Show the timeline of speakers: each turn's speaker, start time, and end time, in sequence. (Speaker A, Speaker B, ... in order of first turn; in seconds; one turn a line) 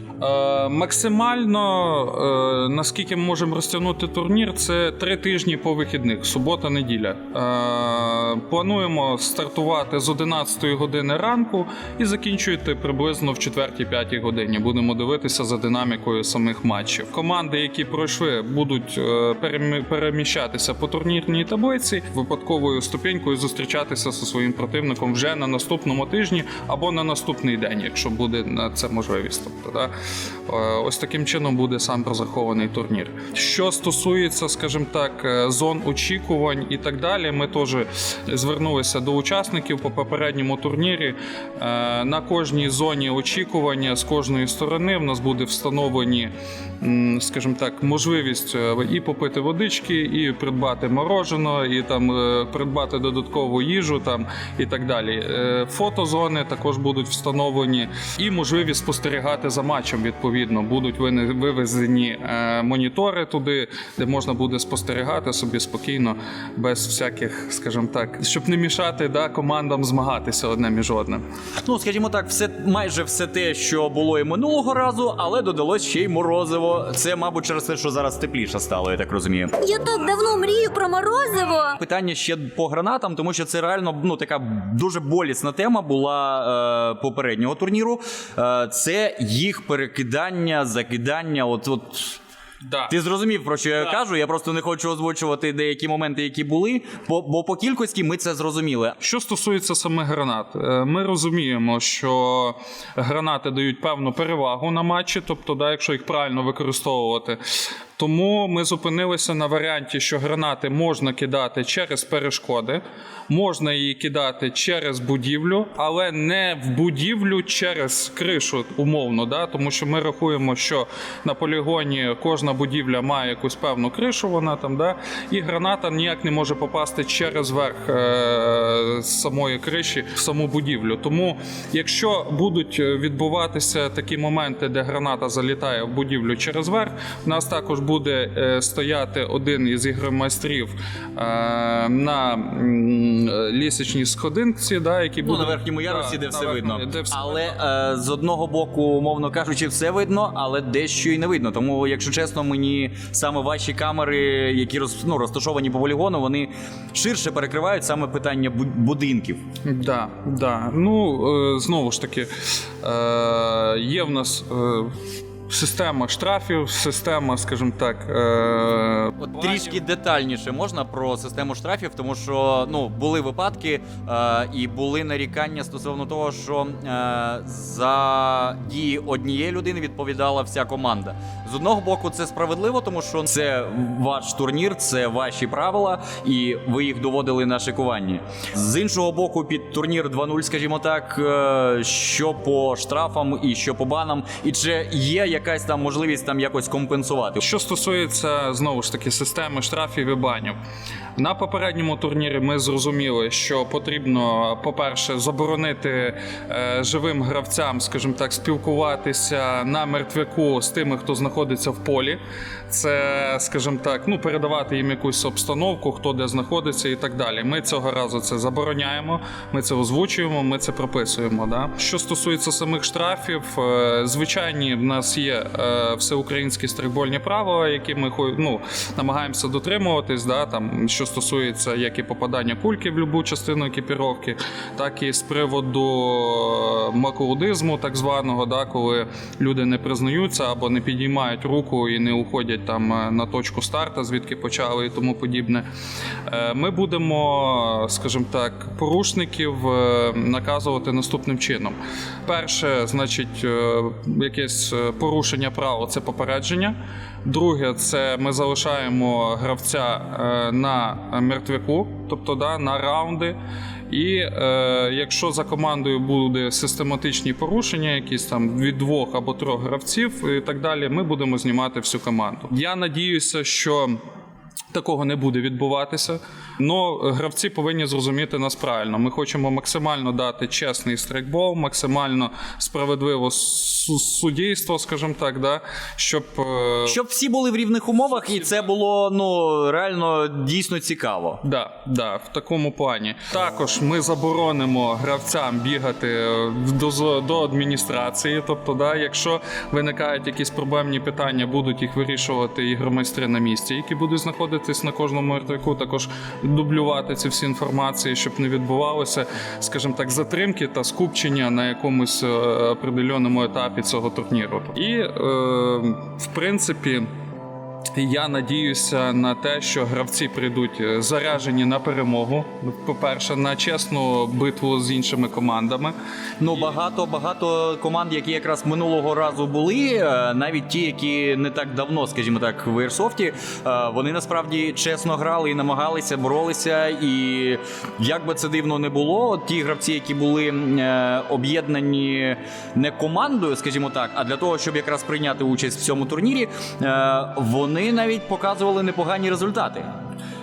Speaker A: 0.2-29.9
Speaker A: 30.5-71.2
Speaker B: 71.6-79.5
Speaker C: 79.6-81.8
Speaker B: 81.8-92.2
Speaker A: 92.6-93.0
Speaker B: 92.9-99.0
Speaker A: 99.0-107.4
Speaker A: 108.0-147.6
Speaker B: 145.2-159.4
Speaker A: 159.7-162.3
Speaker A: 162.8-169.8
Speaker B: 169.2-197.4
Speaker A: 197.4-200.6
Speaker A: 201.2-245.7
Speaker A: 246.3-263.4
Speaker A: 263.9-274.0
Speaker A: 274.7-287.0
Speaker B: 286.9-291.4
Speaker A: 288.1-288.7
Speaker A: 291.4-317.1
Speaker A: 317.9-325.9
Speaker B: 326.4-349.9
Speaker A: 326.5-326.8